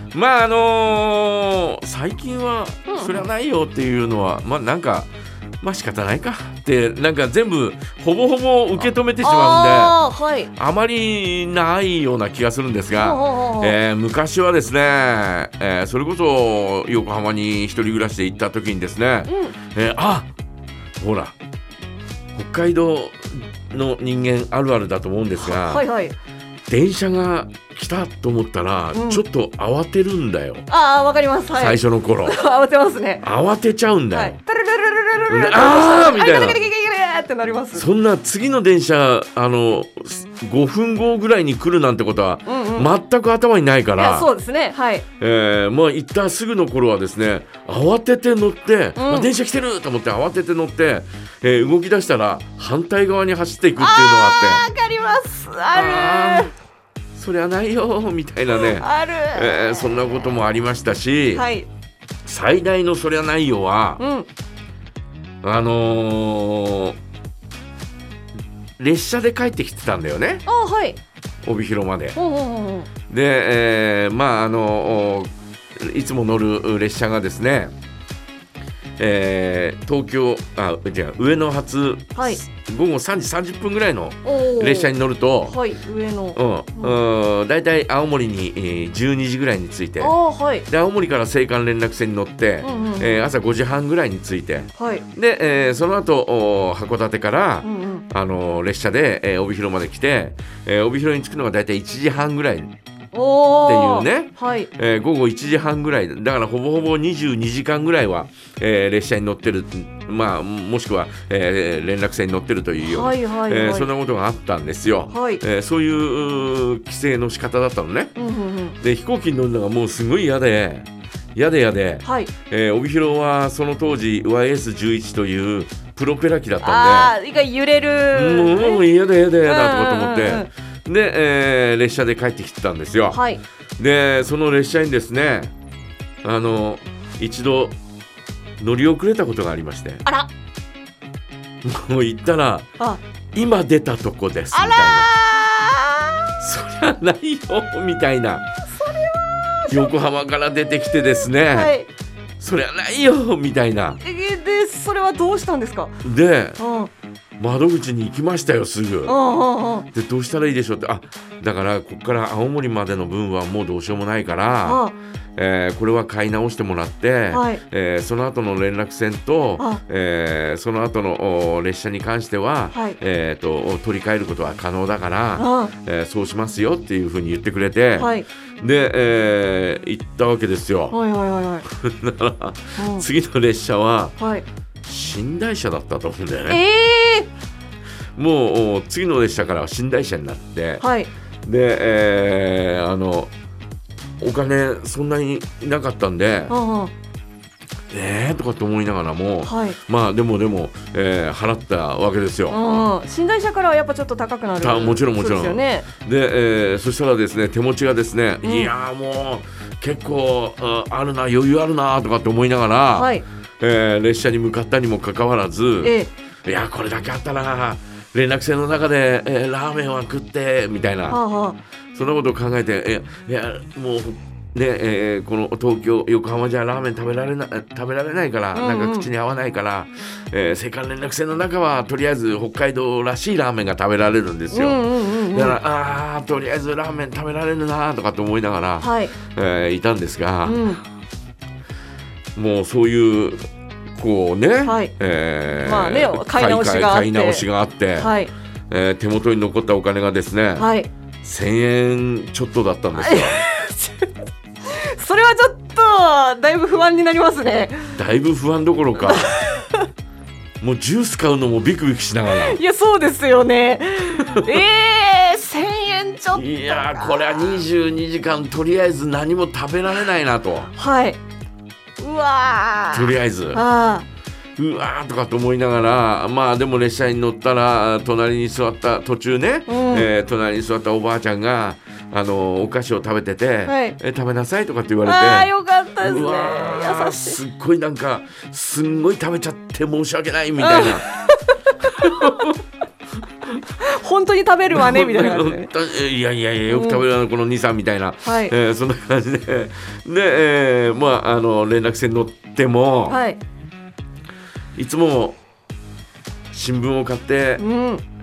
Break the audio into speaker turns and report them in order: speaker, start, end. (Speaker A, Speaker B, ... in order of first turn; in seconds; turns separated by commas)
Speaker A: 0.1-5.1, Speaker B: 2.9-3.2, Speaker A: 5.6-10.0, Speaker B: 9.2-10.5, Speaker A: 10.5-20.3, Speaker B: 12.9-13.8, Speaker B: 19.3-19.5, Speaker A: 21.0-21.3, Speaker A: 22.3-25.8, Speaker B: 25.4-26.1, Speaker A: 26.7-30.6, Speaker B: 28.9-29.2, Speaker B: 30.7-33.2, Speaker A: 31.5-32.4, Speaker A: 33.2-34.4, Speaker B: 34.1-37.8, Speaker A: 35.3-36.6, Speaker A: 37.7-44.3, Speaker B: 42.5-42.9, Speaker B: 44.0-45.0, Speaker A: 45.2-54.6, Speaker B: 49.0-49.3, Speaker B: 53.8-56.5, Speaker A: 55.7-56.5, Speaker A: 57.1-61.4, Speaker B: 58.5-59.9, Speaker B: 61.3-61.7, Speaker A: 62.2-64.0, Speaker B: 64.0-64.3, Speaker A: 65.4-67.0, Speaker A: 68.8-70.4, Speaker B: 70.5-71.0, Speaker A: 71.4-72.2, Speaker B: 72.1-72.9, Speaker A: 73.1-77.7, Speaker A: 79.0-85.6, Speaker B: 82.2-82.4, Speaker B: 84.2-84.9, Speaker B: 85.5-87.0, Speaker A: 86.3-90.2, Speaker B: 90.0-90.7, Speaker A: 90.7-102.7, Speaker B: 92.6-93.2, Speaker B: 94.8-95.0, Speaker B: 97.6-98.0, Speaker B: 103.1-104.7, Speaker A: 103.7-118.1, Speaker B: 112.8-113.9, Speaker B: 115.1-115.4, Speaker B: 118.2-118.8, Speaker A: 118.8-127.1, Speaker B: 122.0-122.3, Speaker B: 126.6-128.8, Speaker A: 128.1-133.2, Speaker B: 129.4-130.5, Speaker B: 133.1-133.4, Speaker A: 133.8-135.5, Speaker A: 136.2-137.8, Speaker A: 138.6-140.0, Speaker A: 141.6-142.7, Speaker A: 143.3-145.1, Speaker B: 144.5-146.4, Speaker A: 146.4-148.4, Speaker A: 149.7-151.7, Speaker B: 151.5-151.9, Speaker A: 152.4-154.0, Speaker B: 154.0-155.9, Speaker A: 156.0-156.6, Speaker B: 156.6-156.9, Speaker A: 157.4-159.1, Speaker B: 159.1-159.9, Speaker A: 159.9-164.8, Speaker B: 164.7-164.9, Speaker A: 165.3-181.0, Speaker B: 167.3-167.6, Speaker B: 172.7-173.0, Speaker B: 175.4-175.7, Speaker B: 178.0-178.2, Speaker B: 180.9-181.6, Speaker A: 181.7-184.1, Speaker B: 182.8-183.1, Speaker B: 184.2-184.4, Speaker A: 184.8-186.6, Speaker B: 186.5-187.3, Speaker A: 188.2-190.8, Speaker B: 190.8-191.1, Speaker A: 191.4-193.3, Speaker A: 194.2-196.5, Speaker B: 196.5-196.9, Speaker A: 197.9-202.6, Speaker B: 199.4-199.8, Speaker B: 202.5-205.9, Speaker A: 204.6-215.9, Speaker B: 208.4-208.7, Speaker B: 212.9-213.2, Speaker B: 215.8-216.1, Speaker A: 216.4-221.2, Speaker B: 221.1-221.6, Speaker A: 221.9-240.6, Speaker B: 228.5-229.1, Speaker B: 234.5-235.6, Speaker B: 238.8-239.1, Speaker B: 240.4-240.8, Speaker A: 242.3-243.4, Speaker A: 243.9-248.1, Speaker B: 244.6-244.9, Speaker B: 245.6-248.3, Speaker A: 248.7-250.7, Speaker B: 250.6-250.9, Speaker A: 251.2-253.4, Speaker B: 252.9-254.1, Speaker B: 254.6-258.0, Speaker A: 257.9-259.4, Speaker B: 259.0-259.9, Speaker A: 260.6-262.6, Speaker B: 262.3-267.6, Speaker A: 266.3-270.7, Speaker B: 270.7-271.2, Speaker B: 272.0-274.1, Speaker A: 272.9-273.6, Speaker A: 274.6-291.1, Speaker B: 279.7-280.1, Speaker B: 283.6-284.0, Speaker B: 285.0-287.4, Speaker B: 290.6-292.4, Speaker A: 291.9-292.5, Speaker B: 293.6-295.7, Speaker A: 294.7-303.2, Speaker B: 296.7-297.0, Speaker B: 298.2-298.5, Speaker B: 303.1-303.4, Speaker A: 304.8-305.4, Speaker A: 306.5-307.6, Speaker B: 307.6-308.0